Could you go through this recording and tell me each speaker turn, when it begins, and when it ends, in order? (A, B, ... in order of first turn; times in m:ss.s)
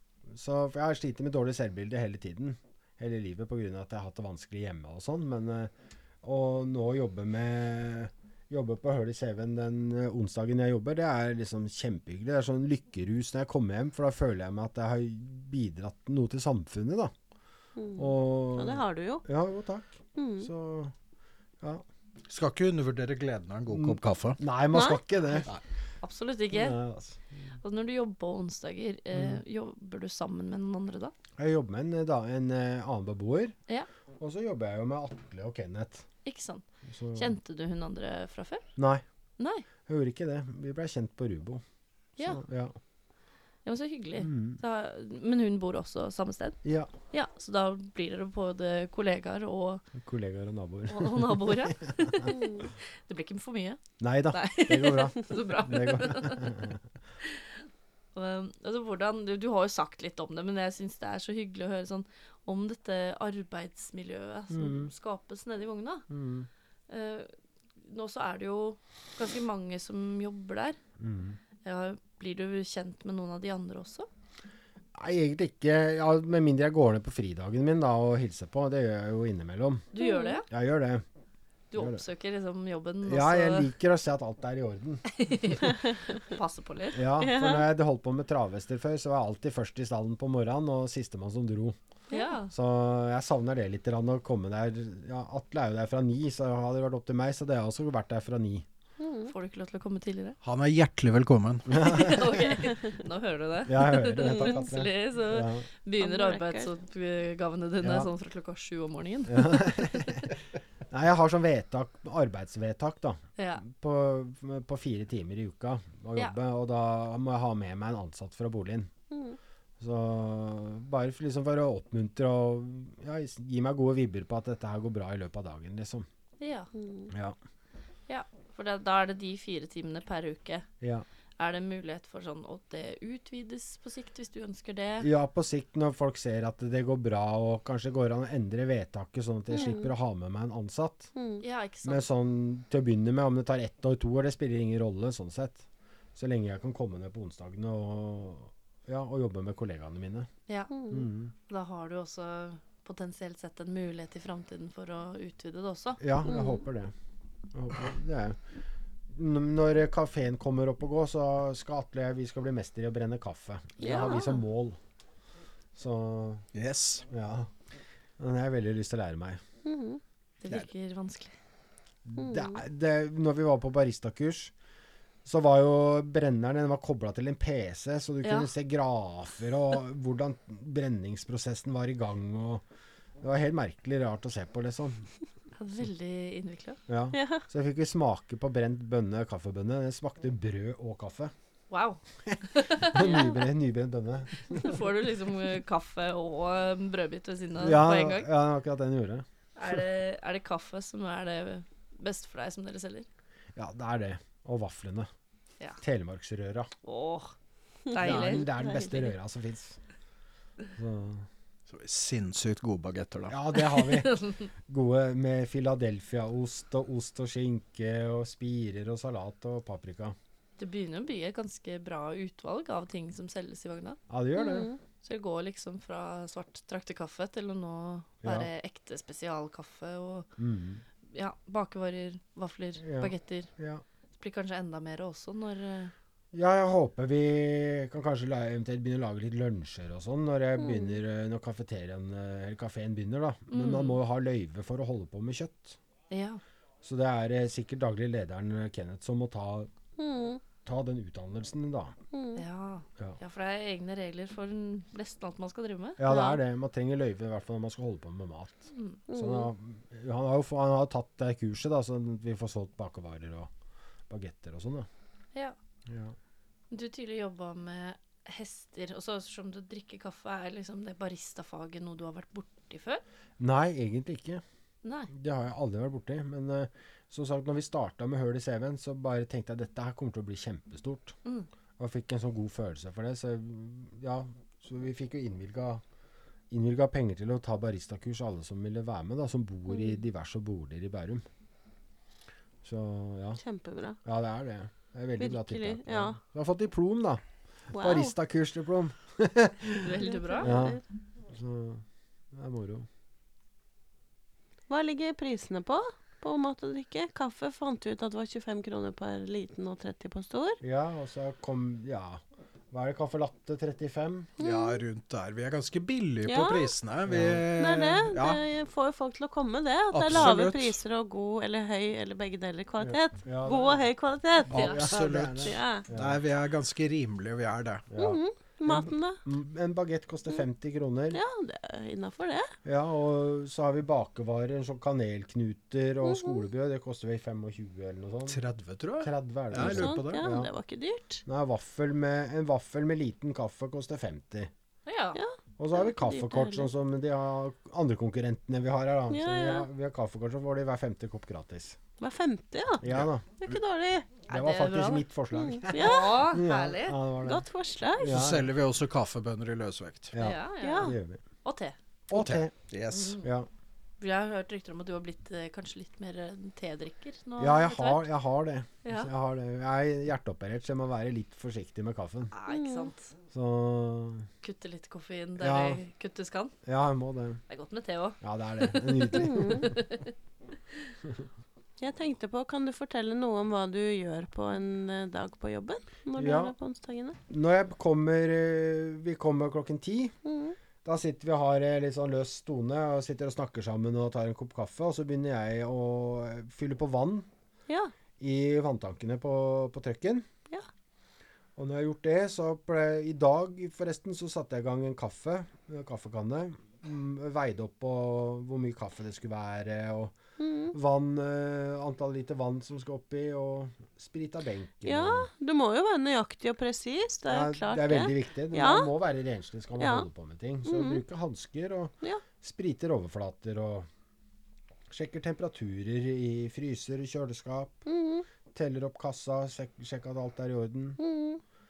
0:00.3-0:05.7 A
0:06.2-0:17.1 A
0:17.8-0:19.2 B
0:18.0-0:20.9 A
0:20.2-0:20.5 B
0:22.3-0:24.4 C
0:23.7-0:25.5 A
0:24.7-0:25.0 B
0:26.0-0:26.8 D
0:26.5-0:27.4 A
0:27.6-0:31.1 D
0:29.1-0:29.4 A
0:31.4-0:33.6 A
0:34.2-0:36.1 A
0:36.2-0:38.7 D
0:36.9-0:37.3 A
0:38.8-0:39.0 A
0:39.4-0:39.7 D
0:39.9-0:41.6 A
0:42.2-0:42.8 A
0:43.6-0:46.6 D
0:44.2-0:44.6 A
0:46.6-0:46.9 A
0:47.1-0:49.8 D
0:50.0-0:52.3 A
0:50.9-0:53.8 D
0:52.3-0:52.7 B
0:54.0-0:56.8 A
0:54.3-0:56.6 D
0:57.2-0:57.6 D
0:58.1-1:06.1 D
1:04.5-1:04.9 A
1:06.1-1:06.5 A
1:06.9-1:10.8 D
1:11.0-1:11.4 A
1:11.6-1:14.1 D
1:15.0-1:19.9 A
1:20.0-1:20.5 D
1:20.0-1:20.4 B
1:20.5-1:21.0 A
1:21.7-1:23.7 D
1:21.8-1:22.0 A
1:23.1-1:25.4 A
1:25.2-1:27.0 D
1:26.9-1:31.8 A
1:27.2-1:27.7 B
1:32.1-1:32.5 D
1:32.5-1:38.6 A
1:39.0-1:39.3 B
1:39.3-1:40.4 D
1:40.4-1:42.1 C
1:41.7-1:42.5 A
1:41.8-1:50.2 D
1:43.7-1:45.6 A
1:44.2-1:44.6 B
1:46.0-1:46.7 B
1:47.8-1:48.1 A
1:49.3-1:58.9 A
1:53.4-1:53.6 D
1:59.1-1:59.4 B
1:59.8-2:06.1 A
2:06.4-2:06.7 D
2:06.7-2:07.1 B
2:07.1-2:07.4 A
2:08.1-2:10.7 D
2:11.4-2:15.1 D
2:15.0-2:21.1 A
2:19.5-2:19.9 B
2:21.1-2:21.4 B
2:21.4-2:22.1 D
2:21.8-2:25.6 A
2:26.2-2:30.3 A
2:30.7-2:31.1 B
2:30.9-2:31.3 A
2:31.5-2:36.0 D
2:36.0-2:36.9 A
2:36.2-2:36.6 B
2:37.5-2:38.4 A
2:39.1-2:44.8 A
2:43.8-2:44.3 B
2:45.8-2:46.5 A
2:46.5-2:47.1 C
2:47.1-2:47.5 A
2:48.2-2:49.4 A
2:49.6-2:50.0 B
2:50.4-2:51.3 D
2:52.0-2:54.5 A
2:52.2-2:52.6 B
2:55.2-3:02.6 A
2:58.2-2:58.5 D
3:03.2-3:05.1 A
3:05.6-3:06.8 D
3:06.9-3:11.3 A
3:07.1-3:07.4 B
3:11.7-3:13.4 D
3:12.3-3:14.8 A
3:13.0-3:13.3 B
3:14.5-3:18.3 D
3:17.6-3:19.2 A
3:19.6-3:23.1 D
3:23.6-3:25.1 A
3:25.8-3:26.7 A
3:26.8-3:27.3 D
3:27.9-3:28.8 D
3:27.9-3:29.0 B
3:28.0-3:29.8 A
3:30.8-3:31.3 A
3:31.7-3:33.4 C
3:33.3-3:40.2 A
3:33.7-3:34.5 D
3:40.6-3:44.0 D
3:44.1-3:44.7 A
3:44.4-3:44.8 B
3:45.0-3:50.3 D
3:48.2-3:48.5 A
3:50.4-3:50.8 A
3:51.1-3:53.5 D
3:52.8-3:53.8 A
3:54.2-3:55.9 D
3:56.3-4:05.8 A
4:00.6-4:01.0 B
4:03.5-4:04.0 D
4:06.1-4:06.4 D
4:06.8-4:09.7 A
4:10.0-4:10.4 B
4:10.6-4:12.0 A
4:12.1-4:12.4 B
4:12.4-4:16.2 D
4:16.0-4:23.5 A
4:16.1-4:16.4 B
4:18.7-4:19.0 D
4:19.1-4:19.5 B
4:24.1-4:24.9 A
4:25.9-4:26.1 A
4:26.7-4:33.0 D
4:33.4-4:34.4 A
4:34.8-4:35.1 D
4:35.1-4:41.2 A
4:41.8-4:45.8 A
4:46.5-4:51.2 A
4:52.6-4:53.4 A
4:53.4-4:54.0 B
4:54.0-4:57.2 A
4:55.2-4:56.2 B
4:57.7-5:02.9 A
4:57.7-4:58.1 B
4:59.8-5:00.7 D
5:00.0-5:00.8 B
5:04.7-5:10.6 B
5:10.6-5:14.3 A
5:14.4-5:14.8 B
5:14.4-5:18.4 C
5:16.2-5:16.7 B
5:17.1-5:17.5 A
5:17.6-5:24.8 B
5:19.9-5:20.8 C
5:22.8-5:23.8 A
5:24.5-5:26.2 A
5:24.5-5:27.9 C
5:25.4-5:25.9 B
5:27.9-5:31.2 A
5:28.0-5:29.2 B
5:31.1-5:32.5 B
5:32.6-5:38.4 A
5:36.0-5:36.4 B
5:38.3-5:40.2 C
5:39.0-5:40.5 A
5:39.6-5:41.2 B
5:41.2-5:44.5 A
5:44.9-5:45.2 D
5:45.1-5:46.7 B
5:45.6-5:51.8 A
5:49.1-5:49.7 B
5:52.0-5:52.8 B
5:52.8-5:53.2 A
5:53.4-5:54.1 B
5:54.3-5:55.1 D
5:54.3-5:57.4 A
5:55.3-5:56.2 B
5:55.7-5:57.0 D
5:57.2-5:58.2 B
5:58.0-5:58.5 A
5:58.0-6:00.1 C
6:00.1-6:01.2 A
6:00.2-6:01.8 D
6:00.6-6:01.0 B
6:02.1-6:02.5 A
6:02.1-6:03.2 C
6:02.9-6:03.3 D
6:03.2-6:03.5 A
6:04.0-6:08.1 D
6:07.4-6:12.3 A
6:08.8-6:09.1 D
6:12.3-6:13.1 D
6:12.5-6:12.9 B
6:13.3-6:14.3 A
6:14.4-6:16.6 D
6:15.4-6:15.8 A
6:16.6-6:17.4 A
6:17.5-6:20.1 D
6:18.2-6:19.8 A
6:19.1-6:19.7 B
6:21.8-6:27.2 B
6:26.2-6:26.5 A
6:27.3-6:30.1 A
6:30.2-6:30.6 B
6:30.8-6:37.3 A
6:38.2-6:40.3 A
6:41.6-6:50.2 A
6:50.4-6:50.8 B
6:50.7-6:55.3 A
6:54.8-6:58.9 B
6:57.3-7:03.9 A
6:59.8-7:00.1 B
7:00.6-7:01.0 B
7:04.9-7:07.8 A
7:07.9-7:08.3 B
7:08.5-7:11.0 A
7:11.0-7:11.4 B